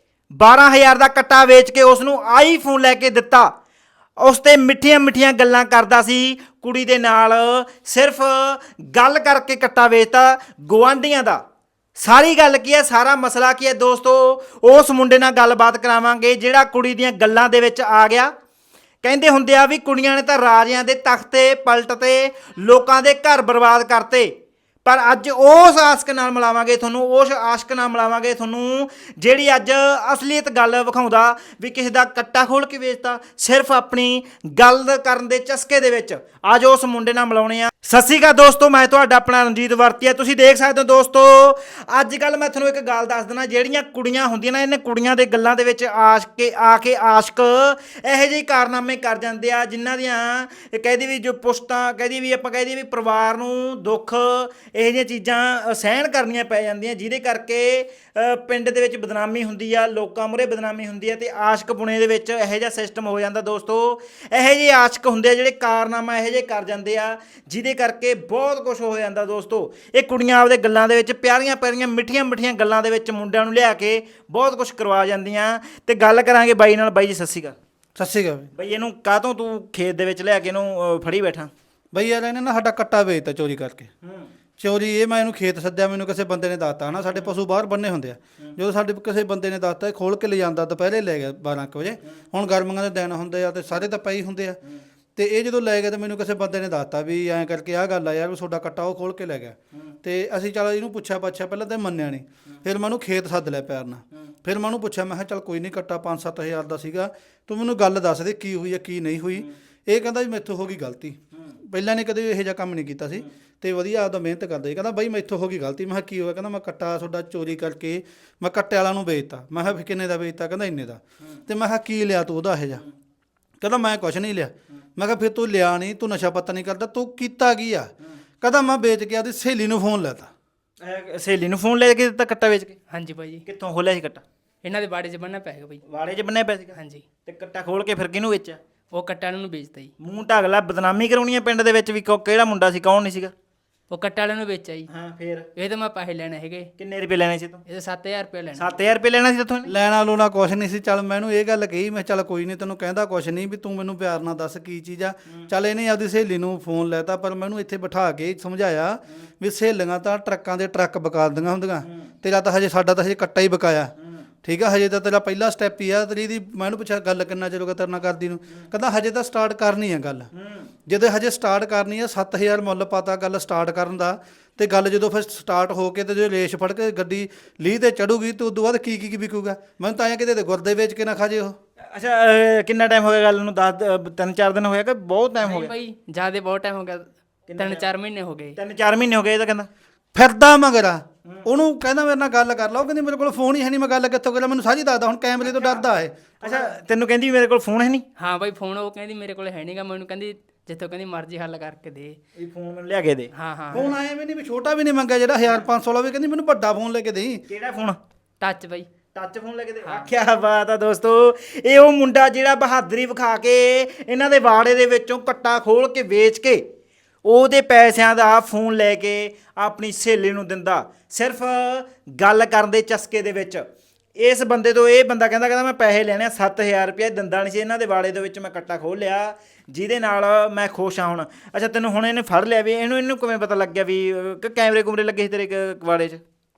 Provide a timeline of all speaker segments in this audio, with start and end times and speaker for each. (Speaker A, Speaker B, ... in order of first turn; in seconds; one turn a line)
Speaker A: 0.3-3.5
Speaker A: 4.2-11.4
Speaker A: 12.0-18.3
Speaker A: 19.0-24.3
Speaker A: 24.8-77.5
Speaker B: 78.0-78.5
Speaker A: 78.5-81.5
Speaker B: 81.9-83.9
Speaker A: 84.0-84.3
Speaker B: 84.6-94.6
Speaker A: 86.9-87.3
Speaker B: 95.2-122.8
Speaker B: 123.6-127.9
Speaker B: 128.4-130.3
Speaker A: 130.8-132.8
Speaker C: 132.9-133.4
Speaker A: 133.5-134.2
Speaker C: 134.6-135.8
Speaker A: 135.9-136.8
Speaker C: 136.7-137.0
Speaker A: 137.2-138.6
Speaker C: 138.9-139.9
Speaker A: 140.0-143.3
Speaker C: 143.9-144.9
Speaker A: 144.9-145.5
Speaker C: 145.6-146.7
Speaker A: 146.8-147.6
Speaker C: 147.7-148.7
Speaker A: 148.6-149.7
Speaker B: 149.7-163.9
Speaker A: 161.8-162.1
Speaker A: 164.0-164.3
Speaker B: 164.4-170.3
Speaker A: 170.3-170.7
Speaker B: 170.9-181.5
Speaker A: 181.8-185.7
Speaker C: 185.4-188.6
Speaker A: 187.5-187.9
Speaker A: 188.6-189.7
Speaker B: 190.2-196.8
Speaker A: 195.4-195.9
Speaker A: 196.4-198.0
Speaker C: 198.2-202.2
Speaker A: 202.4-203.9
Speaker C: 203.3-203.9
Speaker B: 203.7-207.4
Speaker A: 207.5-208.0
Speaker C: 208.4-208.9
Speaker A: 209.1-216.6
Speaker A: 217.2-223.7
Speaker A: 224.2-236.2